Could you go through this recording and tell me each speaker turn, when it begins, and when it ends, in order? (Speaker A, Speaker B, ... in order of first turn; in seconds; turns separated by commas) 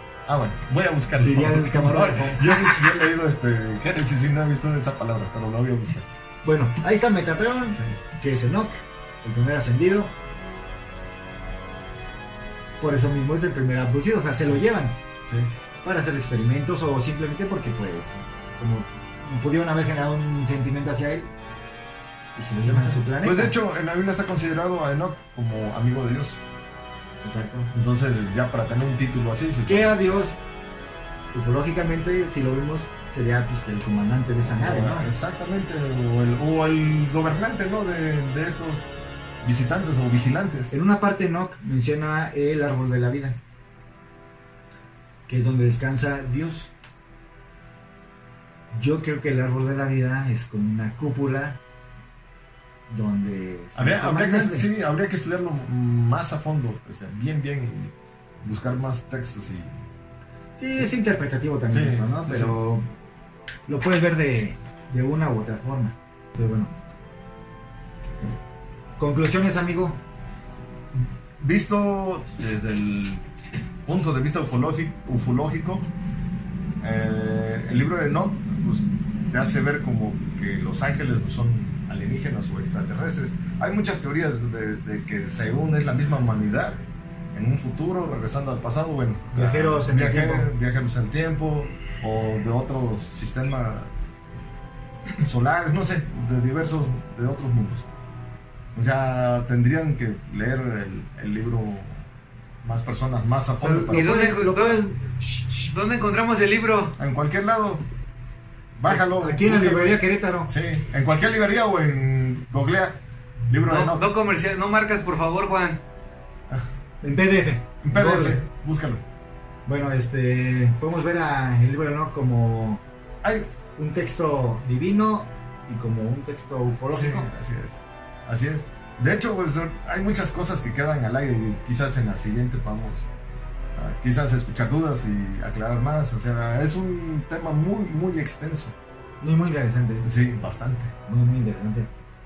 Speaker A: 0.3-6.1, Speaker B: 1.2-2.9, Speaker B: 6.4-10.1, Speaker B: 12.8-15.0, Speaker A: 15.3-15.5, Speaker B: 15.8-21.3, Speaker B: 22.4-23.6, Speaker A: 22.7-26.5, Speaker B: 27.2-27.7, Speaker A: 27.7-30.2, Speaker B: 29.7-30.4, Speaker B: 31.3-35.1, Speaker A: 34.5-38.9, Speaker A: 39.4-40.7, Speaker B: 40.7-43.4, Speaker B: 45.3-46.7, Speaker B: 48.7-51.6, Speaker B: 52.9-54.7, Speaker A: 53.8-59.8, Speaker B: 60.6-62.9, Speaker A: 61.7-62.6, Speaker B: 63.7-66.8, Speaker B: 69.0-70.0, Speaker A: 71.0-73.2, Speaker A: 73.8-75.9, Speaker A: 76.8-86.8, Speaker A: 87.3-93.9, Speaker B: 89.3-90.5, Speaker A: 95.2-97.9, Speaker A: 98.7-102.0, Speaker A: 102.6-104.1, Speaker B: 103.6-105.7, Speaker C: 103.9-104.8, Speaker C: 105.7-106.9, Speaker A: 107.0-107.8, Speaker A: 108.8-114.1, Speaker B: 108.9-110.5, Speaker C: 113.7-115.8, Speaker B: 117.0-118.4, Speaker A: 117.8-119.0, Speaker B: 119.7-122.8, Speaker A: 123.2-123.5, Speaker B: 123.8-127.3, Speaker A: 126.9-133.1, Speaker A: 133.8-138.7, Speaker B: 139.2-140.1, Speaker A: 140.0-140.9, Speaker B: 141.1-141.9